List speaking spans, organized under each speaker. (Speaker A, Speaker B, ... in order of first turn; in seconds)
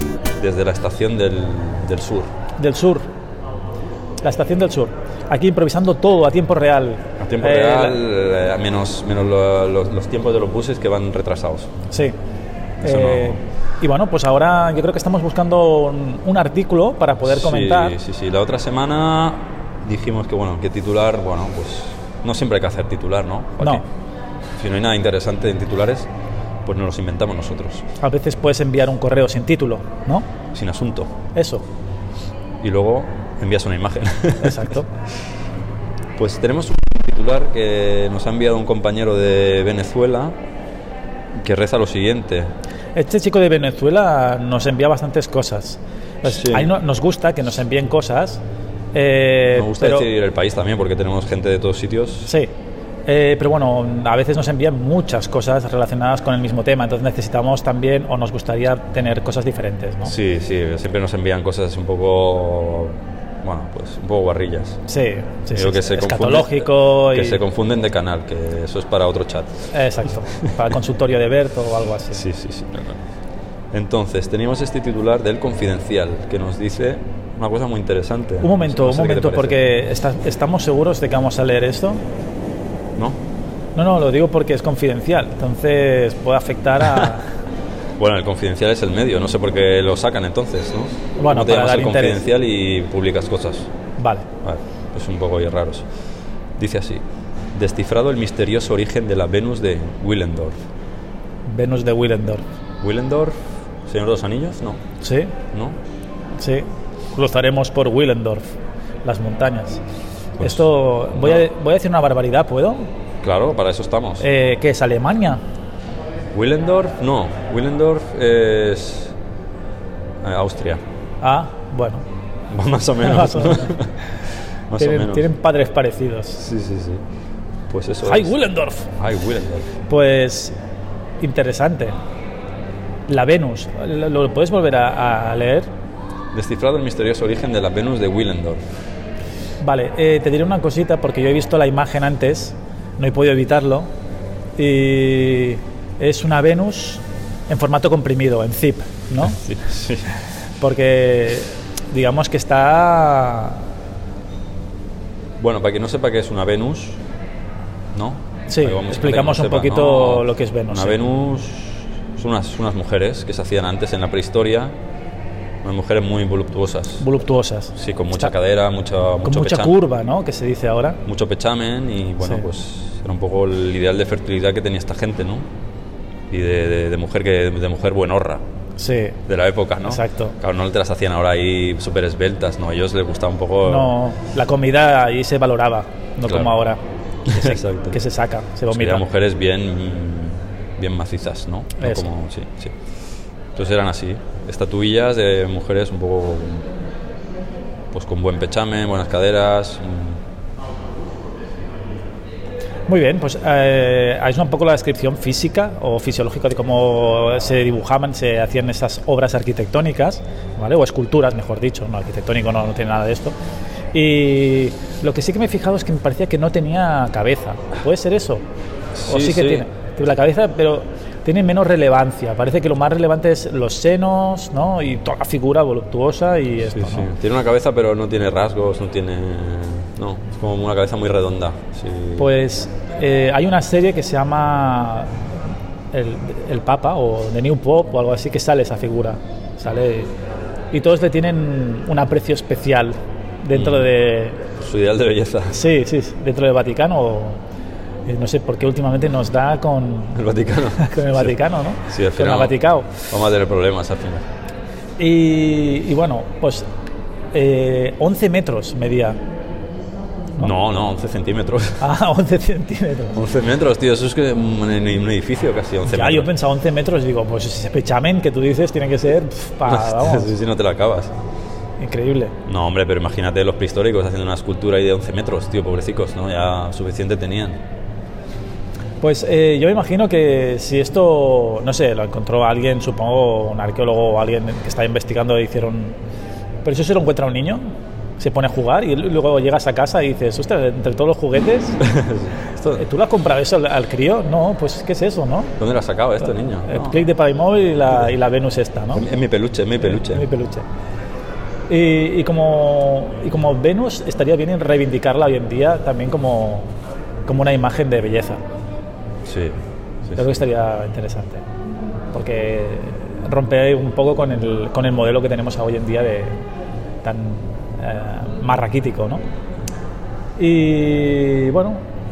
Speaker A: 0.4-2.3, 7.2-11.7, 12.8-13.4, 17.2-23.8, 24.6-26.1, 26.6-27.8, 30.5-31.1, 32.6-34.8, 36.2-40.4, 41.4-42.5, 46.2-46.7, 49.5-52.3, 60.0-64.8, 65.5-69.7, 72.1-73.0, 73.7-79.6, 88.0-93.7, 94.4-95.8, 96.6-97.0, 97.5-100.6, 102.8-104.8, 105.5-105.8, 110.4-111.4, 113.2-114.2, 116.3-119.1, 120.2-120.8, 122.5-123.9, 124.7-125.3, 126.4-127.0, 127.7-128.3, 129.0-129.7, 136.3-138.6, 149.2-150.1, 155.4-157.0, 157.9-164.7, 165.6-167.1, 167.7-169.8, 171.0-175.4, 176.3-178.4, 179.3-183.9, 186.2-186.5, 187.3-188.0, 188.7-192.7, 193.6-196.7, 197.9-200.2, 218.9-219.7, 226.7-232.3, 243.5-243.9, 244.6-245.6, 250.1-251.3, 251.9-252.6, 253.1-254.2, 260.4-261.8, 263.1-266.3, 269.7-271.1, 272.5-277.6, 291.8-292.8, 295.6-297.1, 298.9-300.2, 309.2-310.4
Speaker B: 2.6-3.0, 4.2-8.0, 11.9-12.2, 12.8-17.9, 28.0-30.2, 31.3-31.6, 34.4-34.9, 43.0-48.4, 48.9-50.1, 52.2-52.5, 53.0-60.1, 64.9-67.4, 69.7-72.2, 78.4-82.0, 83.8-87.3, 91.2-92.2, 94.0-94.2, 101.5-102.4, 105.0-105.3, 106.4-109.8, 110.4-112.9, 114.2-115.4, 121.2-122.0, 123.0-123.8, 124.8-126.4, 128.1-128.9, 129.9-130.5, 131.2-131.9, 133.1-135.7, 139.6-143.9, 144.6-149.4, 150.6-153.6, 158.5-161.0, 167.0-168.3, 169.2-171.0, 178.8-179.2, 179.8-180.3, 183.6-189.0, 191.8-192.1, 202.9-213.3, 213.9-218.4, 219.1-227.1, 232.2-235.1, 235.9-240.1, 240.7-244.4, 245.5-247.4, 248.1-250.2, 250.8-252.9, 255.0-256.6, 257.3-259.2, 261.8-263.2, 265.9-270.3, 271.8-272.3, 279.0-285.9, 286.6-287.6, 288.2-291.8, 292.8-295.5, 296.7-299.1, 299.8-300.6, 301.7-306.7, 307.3-308.4, 310.1-311.4, 312.1-316.4, 317.0-319.2, 320.4-321.8